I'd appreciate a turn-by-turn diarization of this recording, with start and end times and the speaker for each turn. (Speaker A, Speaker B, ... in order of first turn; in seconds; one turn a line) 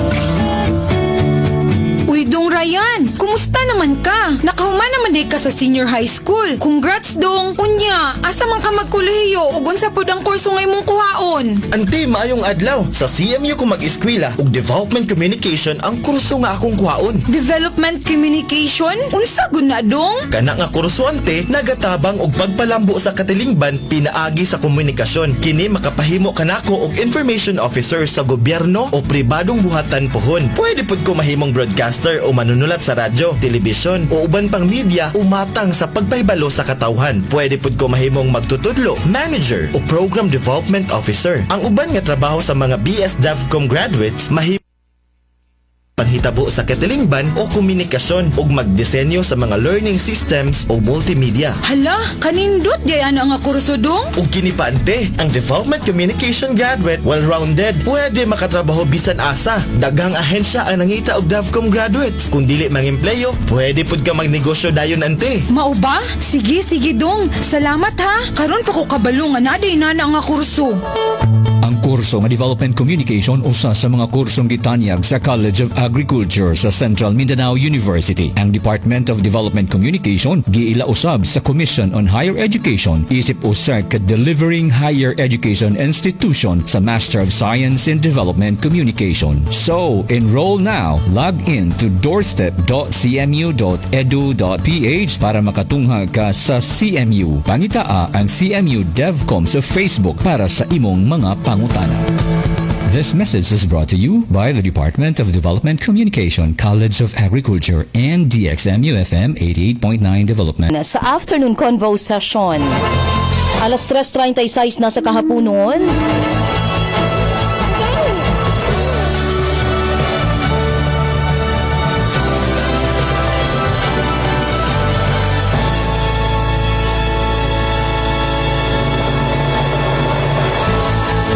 Speaker A: 2.1-11.4
Speaker B: 2.1-11.6
Speaker C: 11.7-17.2
Speaker B: 17.3-20.3
Speaker A: 17.4-18.4
Speaker A: 19.4-19.9
Speaker C: 20.3-44.6
Speaker C: 46.0-51.6
Speaker B: 51.7-54.1
Speaker A: 52.9-53.5
Speaker C: 54.2-65.5
Speaker B: 65.5-70.8
Speaker A: 67.5-69.3
Speaker D: 71.6-102.1
Speaker D: 102.9-110.7
Speaker A: 110.7-112.8
Speaker A: 113.6-116.0